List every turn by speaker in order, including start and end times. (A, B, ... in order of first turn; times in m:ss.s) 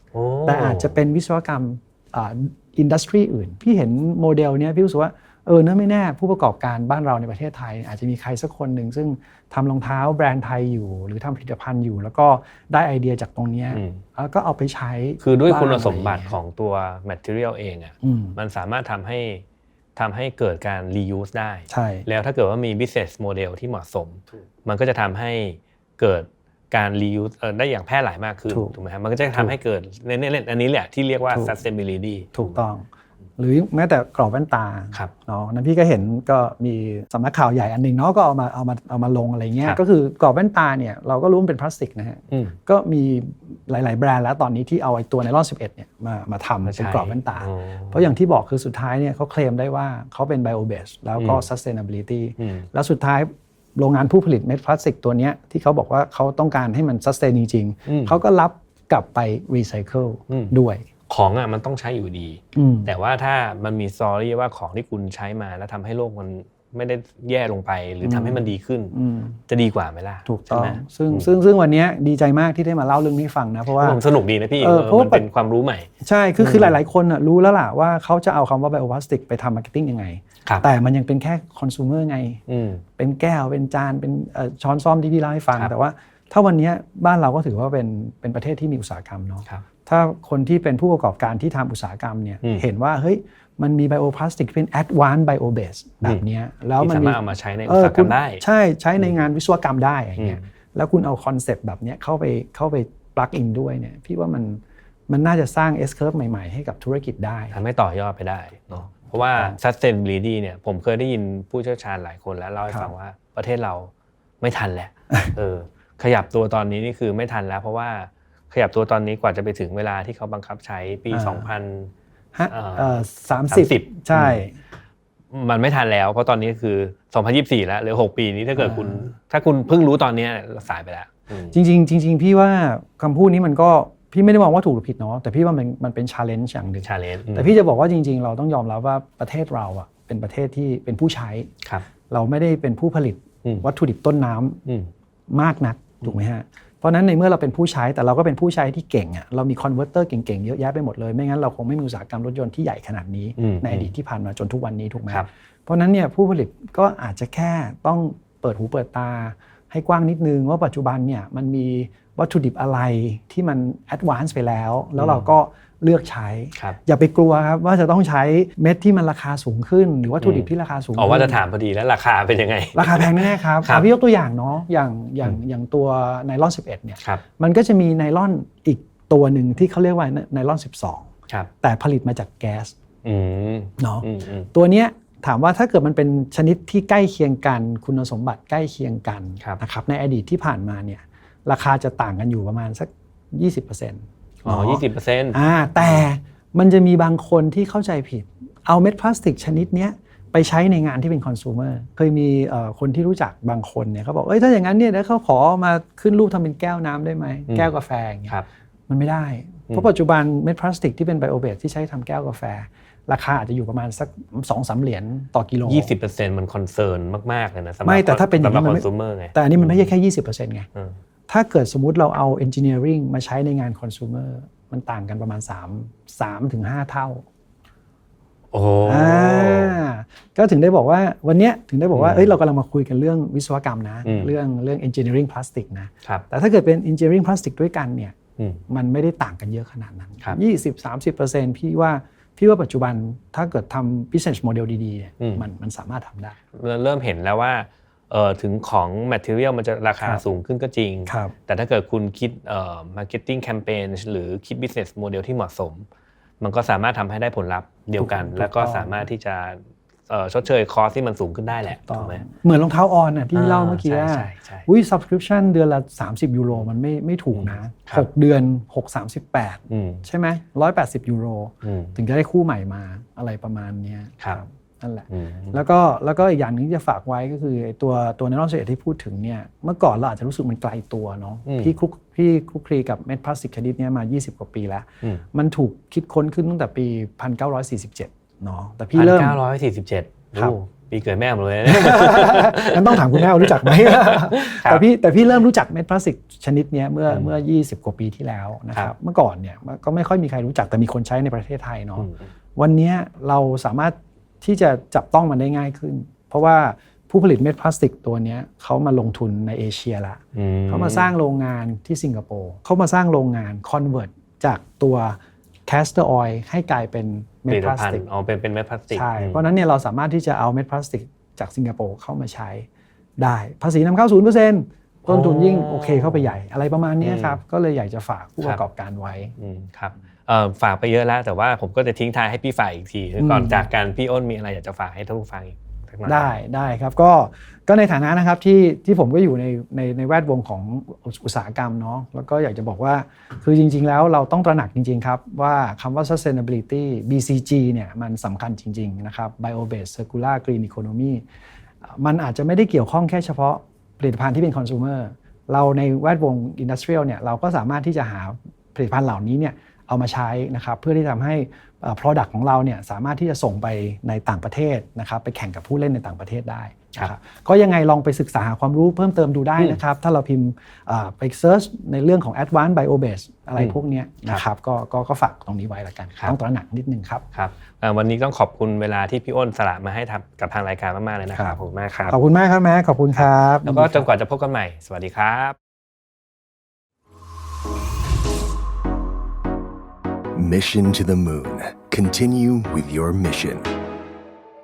0:00.1-0:00.9 A
0:00.4-0:16.4 B
0:13.7-0:14.0 A
0:15.2-0:19.4 A
0:18.0-0:18.4 B
0:20.0-0:32.5 A
0:21.7-0:22.1 B
0:28.5-0:28.7 B
0:32.3-0:32.8 B
0:33.4-1:00.9 B
0:42.3-0:42.6 A
0:46.6-0:48.0 A
0:51.2-0:51.4 A
0:52.4-0:52.6 A
0:57.9-0:58.2 A
1:01.1-1:08.9 A
1:02.5-1:02.9 B
1:08.0-1:09.4 B
1:09.5-1:11.3 A
1:10.2-1:14.0 B
1:13.7-1:16.8 A
1:14.6-1:15.2 B
1:16.0-1:22.4 B
1:22.5-1:22.8 A
1:23.0-1:47.6 B
1:36.8-1:38.4 A
1:47.5-2:01.9 A
2:01.1-2:01.5 B
2:02.3-2:04.5 B
2:02.5-2:03.0 A
2:03.5-2:04.4 A
2:05.3-2:11.5 A
2:08.6-2:09.1 B
2:11.5-2:21.5 B
2:16.8-2:17.5 A
2:22.1-2:24.6 B
2:25.3-2:51.4 B
2:33.4-2:33.9 A
2:45.0-2:45.2 A
2:50.2-2:53.9 A
2:52.7-3:01.1 B
3:01.6-3:02.7 B
3:03.0-3:04.5 A
3:03.8-3:28.4 B
3:14.4-3:16.0 A
3:28.9-3:35.9 B
3:35.6-3:39.8 A
3:37.8-3:40.7 B
3:41.3-3:47.2 B
3:48.5-3:49.8 A
3:48.8-3:58.1 B
3:51.9-3:52.3 A
3:54.0-3:54.3 A
3:58.7-4:06.4 B
4:06.5-4:15.8 A
4:11.1-4:11.3 B
4:16.4-4:22.2 A
4:18.0-4:19.0 B
4:21.9-4:49.4 B
4:23.3-4:24.7 A
4:27.3-4:28.0 A
4:29.7-4:30.0 A
4:31.6-4:32.0 A
4:35.1-4:35.6 A
4:41.4-4:41.7 A
4:48.9-4:54.8 A
4:51.6-5:18.0 B
5:10.3-5:11.1 A
5:17.5-5:19.4 A
5:18.9-5:22.7 B
5:23.2-5:29.3 B
5:25.0-5:26.4 A
5:27.0-5:27.4 A
5:29.4-5:36.3 A
5:33.2-5:33.7 B
5:36.0-5:51.2 B
5:52.0-6:17.2 B
6:17.3-6:22.1 A
6:22.1-6:24.0 B
6:23.2-6:25.6 A
6:30.3-6:33.7 C